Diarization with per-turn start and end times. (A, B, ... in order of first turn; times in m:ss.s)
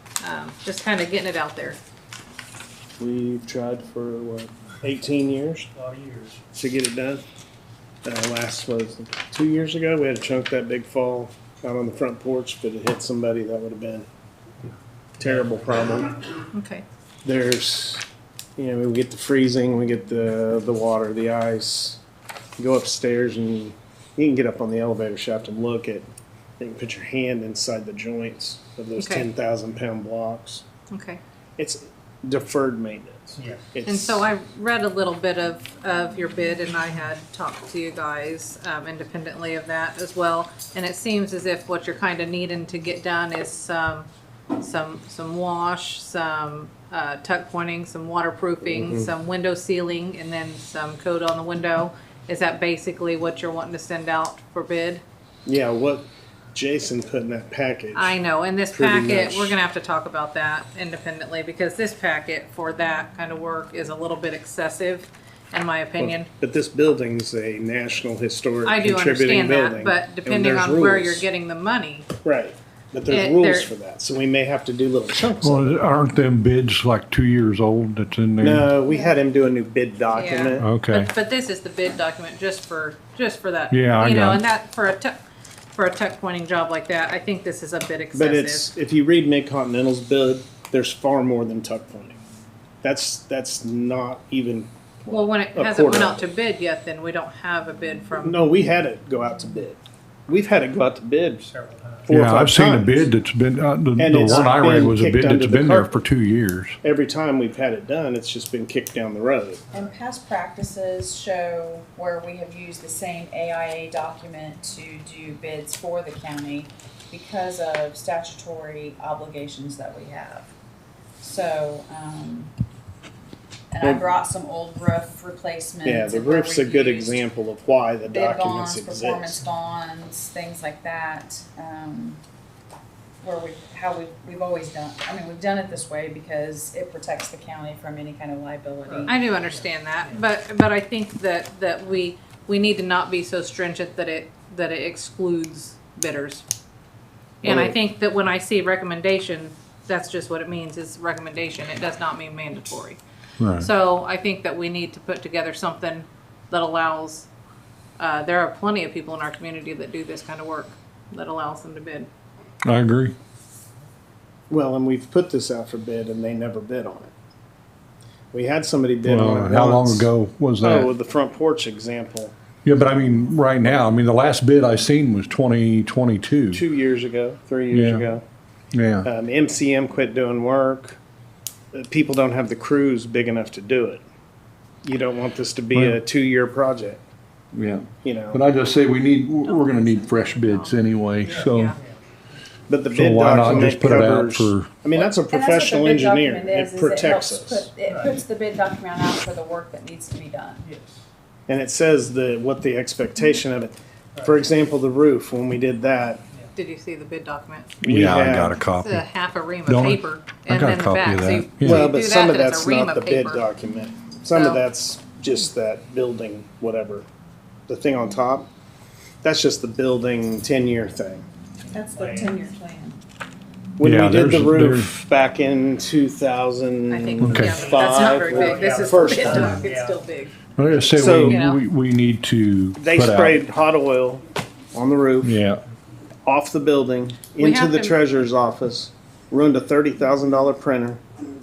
0:00.2-0:01.8 A
0:03.0-0:05.7 B
0:05.8-0:06.3 C
0:06.5-0:07.2 B
0:08.0-0:14.1 B
0:15.2-0:16.2 B
0:16.5-0:16.8 A
0:17.2-0:18.0 B
0:18.6-0:22.0 B
0:22.6-0:26.1 B
0:26.6-0:30.6 B
0:29.0-0:29.3 A
0:30.9-0:31.2 A
0:31.6-0:34.2 B
0:33.4-0:33.7 C
0:33.8-0:55.0 A
0:48.7-0:49.1 B
0:55.4-0:58.2 B
0:57.9-1:06.3 A
0:58.7-0:59.6 B
1:06.0-1:11.3 B
1:08.6-1:12.1 A
1:12.2-1:15.8 B
1:13.1-1:13.7 A
1:15.4-1:18.7 D
1:18.4-1:20.7 B
1:18.9-1:19.2 E
1:20.1-1:25.2 A
1:20.6-1:21.1 D
1:23.7-1:24.4 D
1:25.7-1:28.7 A
1:28.1-1:32.2 B
1:32.8-1:36.2 B
1:35.1-1:38.4 A
1:38.2-1:41.5 B
1:41.5-1:42.1 C
1:42.0-1:43.1 B
1:42.1-1:46.8 D
1:44.0-1:46.0 B
1:46.8-1:49.7 B
1:49.7-2:00.5 E
2:01.2-2:02.5 E
2:03.7-2:07.2 E
2:05.8-2:09.4 B
2:08.1-2:12.2 E
2:13.2-2:19.2 E
2:19.1-2:26.4 A
2:27.4-2:33.0 A
2:27.4-2:27.7 B
2:33.4-2:33.7 D
2:33.6-2:37.3 A
2:38.0-2:42.1 A
2:42.6-2:43.1 D
2:44.5-2:47.1 B
2:48.3-2:52.3 B
2:49.0-2:50.9 D
2:52.6-2:56.6 D
2:56.5-2:58.2 B
2:57.7-2:58.0 D
2:58.7-2:59.1 D
2:59.0-3:01.0 B
3:01.7-3:04.0 B
3:04.8-3:07.0 B
3:05.7-3:06.0 D
3:07.5-3:11.7 D
3:08.0-3:08.4 B
3:09.4-3:10.8 A
3:11.2-3:11.9 C
3:11.3-3:11.8 A
3:12.7-3:17.7 B
3:12.9-3:14.7 D
3:15.0-3:20.6 E
3:17.8-3:18.1 C
3:20.6-3:20.9 C
3:21.5-3:26.2 B
3:26.5-3:27.7 A
3:27.8-3:29.0 D
3:27.8-3:28.6 B
3:28.8-3:33.5 A
3:29.6-3:31.9 D
3:31.6-3:37.1 B
3:34.3-3:34.6 A
3:37.7-3:38.5 B
3:39.2-3:41.2 B
3:41.7-3:43.0 E
3:42.0-3:42.3 C
3:43.8-3:49.6 B
3:43.8-3:44.9 D
3:46.9-3:50.3 A
3:47.2-3:47.7 D
3:47.5-3:50.0 C
3:49.3-3:49.6 D
3:50.6-3:53.4 D
3:50.9-3:51.4 B
3:51.3-3:51.6 A
3:52.8-3:55.4 B
3:55.2-3:55.6 D
3:56.2-4:01.0 B
3:57.4-3:58.0 A